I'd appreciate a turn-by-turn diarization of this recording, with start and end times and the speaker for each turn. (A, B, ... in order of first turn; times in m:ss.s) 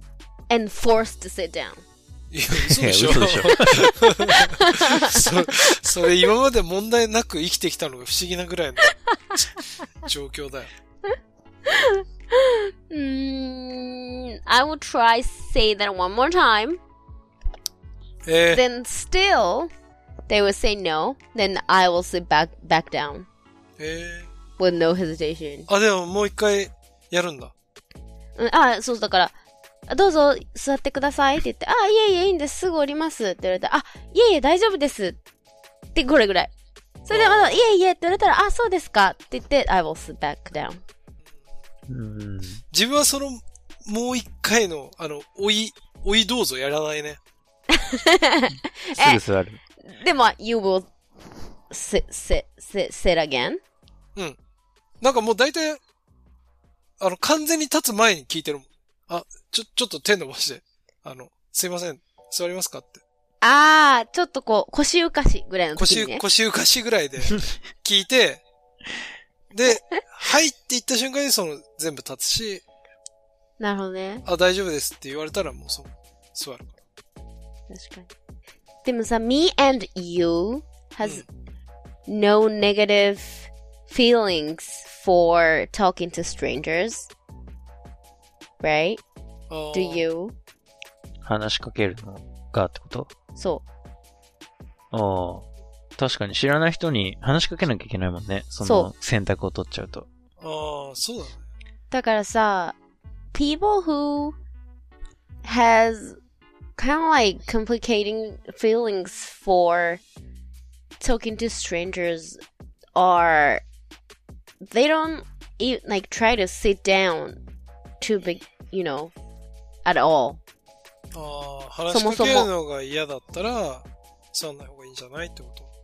0:00.5-0:01.8 A
0:02.3-0:10.7 B
0:02.7-0:03.9 C
0:03.5-0:05.7 A
0:11.6-0:16.8 A
0:18.2-0:18.6 B
0:18.5-0:19.7 A
0:20.3-0:23.3 A
0:23.8-0:24.3 B
0:24.6-0:25.7 A
0:25.7-0:27.5 B
0:28.4-0:29.3 A
0:29.9-0:35.2 A
0:35.9-0:36.5 A
0:37.0-0:40.8 A
0:37.1-0:37.7 B
0:41.9-0:42.6 C
0:42.7-0:47.2 B
0:47.7-0:49.2 A
0:49.0-0:49.6 C
0:49.8-0:50.9 A
0:51.7-0:53.6 A
0:55.0-0:55.8 B
0:57.0-1:03.0 B
1:03.4-1:06.2 A
1:05.8-1:08.4 B
1:09.5-1:12.6 B
1:09.7-1:10.0 A
1:13.6-1:14.2 A
1:14.2-1:16.7 B
1:17.7-1:18.1 A
1:18.8-1:21.2 A
1:22.1-1:27.1 A
1:28.6-1:29.0 A
1:29.5-1:30.0 B
1:29.7-1:30.3 A
1:31.2-1:33.1 C
1:33.4-1:33.6 A
1:34.9-1:40.1 C
1:38.6-1:38.9 A
1:40.4-1:41.5 B
1:41.9-1:42.7 A
1:43.3-1:44.4 A
1:45.4-1:46.2 A
1:46.8-1:50.0 A
1:51.0-1:52.4 A
1:53.0-1:53.6 A
1:54.6-1:57.4 A
1:58.0-1:59.1 A
1:59.8-2:00.4 A
2:01.1-2:05.7 B
2:01.9-2:02.5 A